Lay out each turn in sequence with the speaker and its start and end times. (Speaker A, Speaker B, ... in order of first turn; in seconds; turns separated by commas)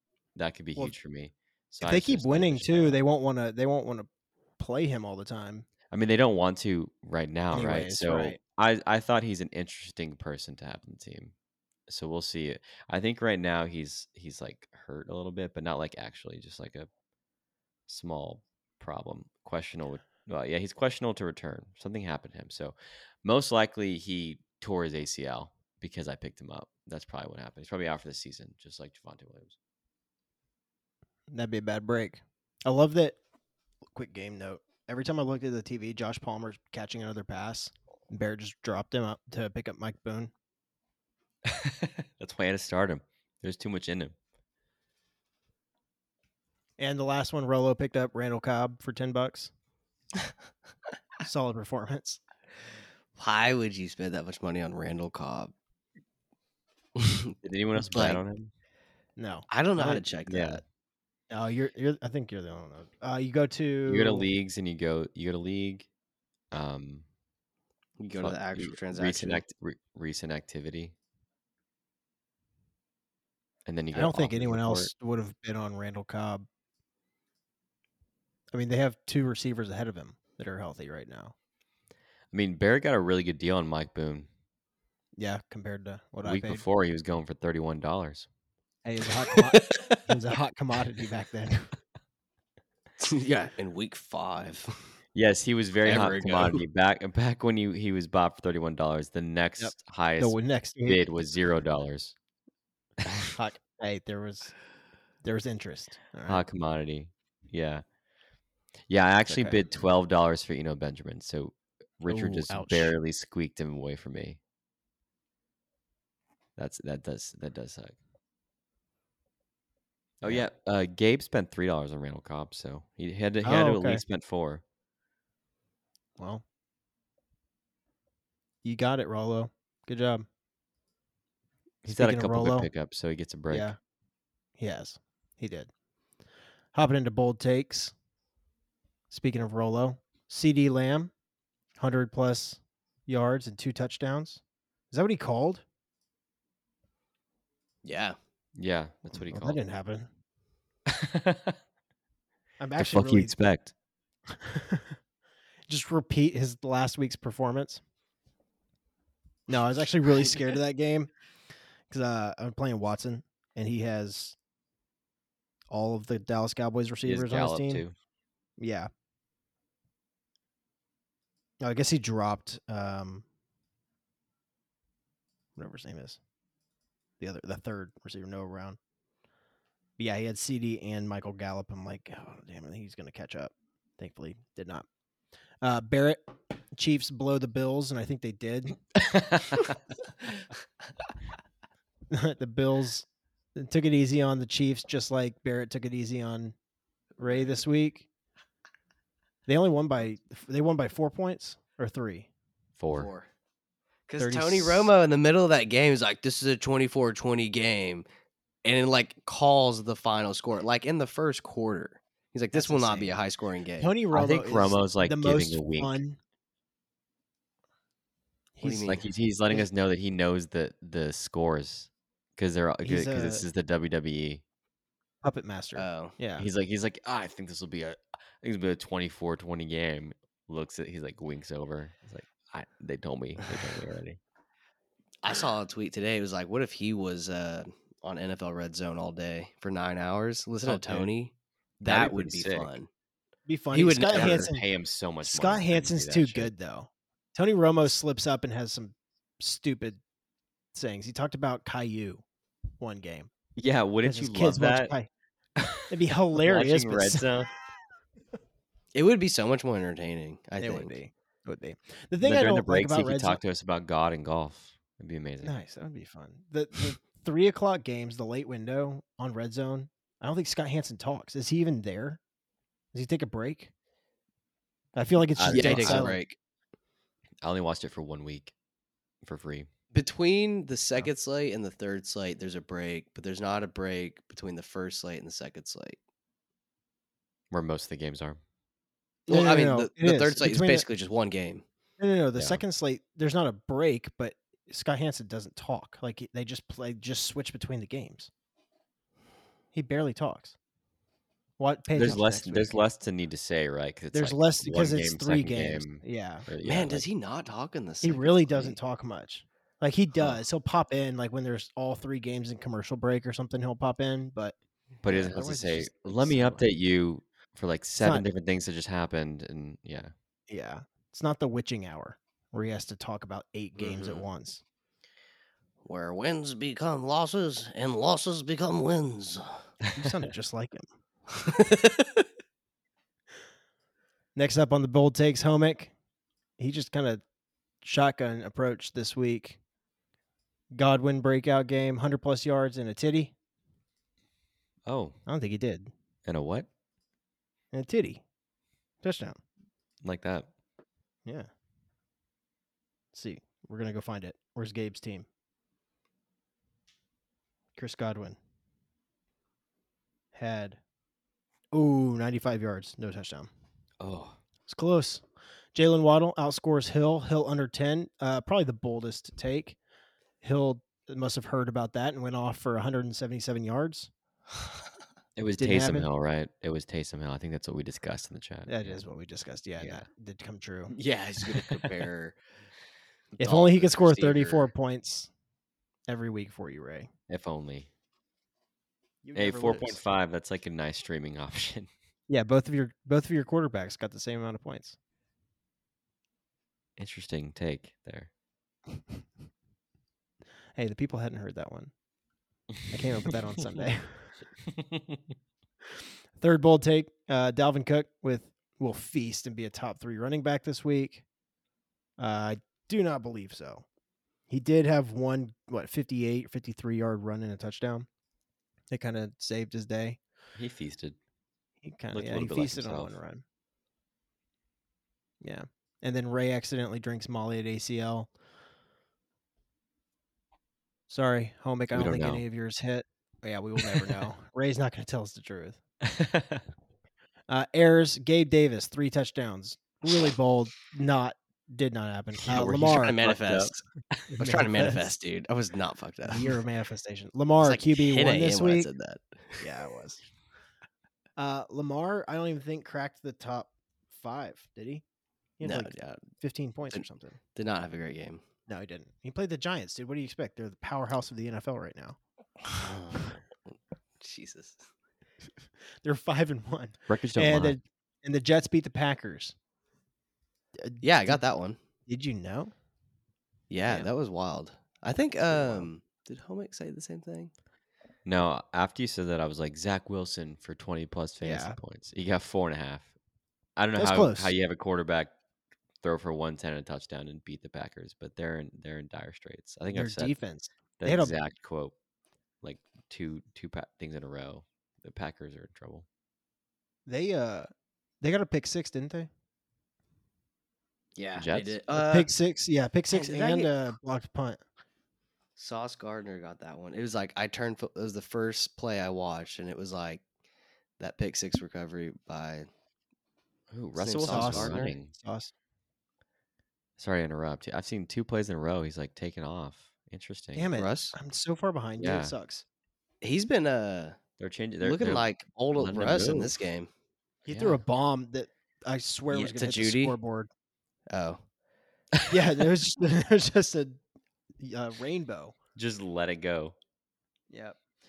Speaker A: 0.3-3.0, Speaker B: 1.8-5.7, Speaker A: 5.9-11.3, Speaker B: 7.5-8.4, Speaker A: 11.9-16.9, Speaker A: 17.9-29.6, Speaker B: 31.3-33.2, Speaker B: 33.9-40.3, Speaker A: 41.4-44.1, Speaker B: 46.8-49.5, Speaker B: 51.2-52.2, Speaker C: 53.2-55.5, Speaker C: 57.0-58.2, Speaker A: 57.4-58.5, Speaker B: 59.2-60.0, Speaker C: 59.5-60.6, Speaker A: 60.2-60.6, Speaker B: 61.3-64.3, Speaker A: 63.9-65.9, Speaker A: 66.5-67.0, Speaker C: 68.0-69.4, Speaker A: 68.2-70.9, Speaker A: 73.7-74.9, Speaker B: 73.9-76.5, Speaker B: 78.5-81.3, Speaker A: 82.3-84.3, Speaker B: 85.2-86.6, Speaker A: 86.2-88.3, Speaker B: 88.8-91.7, Speaker C: 93.0-94.8, Speaker A: 95.1-102.1, Speaker C: 95.8-96.6, Speaker B: 99.6-101.0, Speaker A: 103.0-103.3, Speaker B: 103.3-104.5, Speaker B: 105.2-106.4, Speaker A: 106.3-107.8, Speaker A: 108.9-114.4, Speaker B: 109.3-109.6, Speaker B: 112.1-112.9, Speaker A: 116.6-118.0, Speaker A: 120.2-124.6, Speaker B: 123.4-124.0, Speaker B: 126.2-126.4, Speaker B: 128.6-130.2, Speaker A: 131.8-133.7, Speaker B: 131.9-132.7, Speaker B: 133.5-133.8, Speaker B: 134.6-135.7, Speaker B: 136.7-137.9, Speaker B: 139.1-141.1, Speaker B: 141.8-145.6, Speaker C: 147.8-148.2, Speaker A: 148.6-149.6, Speaker B: 149.1-150.1, Speaker A: 150.9-151.6, Speaker B: 152.6-153.3, Speaker A: 152.8-153.7, Speaker B: 154.4-155.0, Speaker B: 155.7-157.8, Speaker B: 159.5-161.1, Speaker B: 161.9-164.3, Speaker B: 165.7-167.8, Speaker A: 167.0-167.9, Speaker B: 168.6-168.9, Speaker B: 171.6-173.2, Speaker B: 175.6-176.2, Speaker B: 177.2-178.8, Speaker B: 180.0-184.8, Speaker B: 185.6-188.8, Speaker A: 189.1-189.7, Speaker B: 192.1-196.5, Speaker C: 197.2-197.5, Speaker B: 197.2-198.1, Speaker B: 199.5-202.3, Speaker A: 202.8-203.1, Speaker C: 202.9-203.3, Speaker C: 204.1-208.1, Speaker B: 204.2-204.9, Speaker C: 208.6-213.9, Speaker B: 212.5-213.2, Speaker B: 213.8-216.2, Speaker A: 214.1-216.0, Speaker B: 218.6-219.0, Speaker C: 218.6-219.0, Speaker A: 218.9-224.4, Speaker B: 222.8-223.4, Speaker B: 225.2-226.4, Speaker C: 225.8-226.2, Speaker A: 226.4-234.2, Speaker C: 235.2-242.9, Speaker A: 240.7-241.1, Speaker A: 241.8-242.7, Speaker B: 243.4-244.6, Speaker C: 243.7-244.5, Speaker A: 244.1-246.5, Speaker B: 245.2-250.0, Speaker B: 250.7-252.2, Speaker B: 252.8-253.3, Speaker A: 253.6-254.9, Speaker B: 254.0-255.1, Speaker A: 255.6-257.5, Speaker B: 255.9-257.3, Speaker C: 258.9-260.9, Speaker B: 260.6-263.4, Speaker A: 262.2-265.5, Speaker B: 265.4-272.2, Speaker B: 272.9-273.7, Speaker B: 274.9-276.2, Speaker A: 275.4-276.1, Speaker C: 275.5-276.4, Speaker A: 277.4-278.5, Speaker A: 279.2-279.7, Speaker C: 279.9-286.0, Speaker A: 287.5-288.4, Speaker B: 289.3-290.9, Speaker C: 289.3-291.6, Speaker B: 292.0-298.3, Speaker B: 299.7-300.5, Speaker B: 301.6-302.8, Speaker A: 301.9-307.0, Speaker B: 304.1-306.4, Speaker C: 306.6-308.8, Speaker B: 308.0-316.6, Speaker A: 315.0-320.1, Speaker B: 318.0-318.3, Speaker B: 320.5-324.6, Speaker C: 323.8-324.2, Speaker C: 325.8-329.6, Speaker B: 329.9-330.9, Speaker C: 331.3-332.3, Speaker B: 334.3-335.9, Speaker B: 336.6-337.2, Speaker B: 337.8-339.6, Speaker B: 340.7-343.3, Speaker A: 344.9-345.2, Speaker B: 345.3-345.9, Speaker A: 346.2-346.7, Speaker B: 347.7-348.2, Speaker B: 349.0-349.4, Speaker A: 350.0-350.5, Speaker B: 353.1-355.2, Speaker B: 357.7-358.4, Speaker B: 360.3-360.8, Speaker B: 361.7-363.5, Speaker A: 364.0-364.4, Speaker B: 364.7-365.2, Speaker B: 365.7-369.8, Speaker B: 370.4-374.1, Speaker A: 375.4-379.0, Speaker B: 375.6-376.1, Speaker B: 378.7-380.9, Speaker C: 380.9-382.4, Speaker C: 383.4-384.7, Speaker B: 383.4-385.3, Speaker B: 386.1-387.1, Speaker A: 387.3-387.9, Speaker B: 389.2-390.0, Speaker A: 389.3-391.9, Speaker B: 392.3-395.0, Speaker A: 397.0-398.3, Speaker B: 400.8-401.9, Speaker B: 402.9-404.3, Speaker A: 404.7-405.2, Speaker B: 406.4-411.2, Speaker B: 412.2-413.8, Speaker B: 414.5-418.1, Speaker B: 418.9-420.2, Speaker A: 420.5-421.2, Speaker B: 421.8-423.4, Speaker A: 422.1-423.1, Speaker B: 425.4-428.3, Speaker B: 431.1-435.8, Speaker A: 431.9-432.4, Speaker A: 436.0-436.6, Speaker B: 437.5-443.2, Speaker A: 442.5-444.3, Speaker C: 442.6-443.8, Speaker B: 444.4-445.1, Speaker C: 444.4-446.6, Speaker B: 446.2-448.9, Speaker C: 447.6-449.7, Speaker B: 449.6-450.2, Speaker B: 451.4-455.0, Speaker B: 455.6-457.4, Speaker C: 455.6-456.2, Speaker C: 457.5-458.4, Speaker B: 458.7-462.2, Speaker C: 462.7-464.9, Speaker B: 466.0-469.5, Speaker A: 467.1-467.7, Speaker B: 470.8-471.4, Speaker C: 471.0-471.8, Speaker B: 472.1-472.7, Speaker C: 473.7-477.5, Speaker B: 475.5-475.9, Speaker A: 478.2-483.1, Speaker B: 481.4-481.8, Speaker A: 483.8-485.3, Speaker B: 484.0-484.5, Speaker A: 486.0-490.3, Speaker B: 489.9-491.4, Speaker A: 491.0-491.9, Speaker A: 492.6-496.0, Speaker B: 497.1-497.7, Speaker B: 498.2-499.3, Speaker C: 501.1-502.3, Speaker A: 501.4-501.8, Speaker B: 501.9-504.6, Speaker C: 503.1-503.7, Speaker C: 505.6-510.2, Speaker C: 511.0-512.7, Speaker A: 513.7-515.1, Speaker C: 514.0-514.9, Speaker B: 514.2-515.5, Speaker A: 517.0-520.7, Speaker B: 520.5-522.6, Speaker C: 520.7-521.1, Speaker A: 522.0-522.3, Speaker C: 523.2-524.2, Speaker A: 524.4-526.5, Speaker C: 524.8-526.9, Speaker B: 527.5-530.5, Speaker A: 527.5-527.8, Speaker C: 529.3-530.1, Speaker C: 531.1-531.4, Speaker B: 532.3-534.0, Speaker B: 534.6-535.5, Speaker A: 535.8-536.7, Speaker B: 537.5-537.8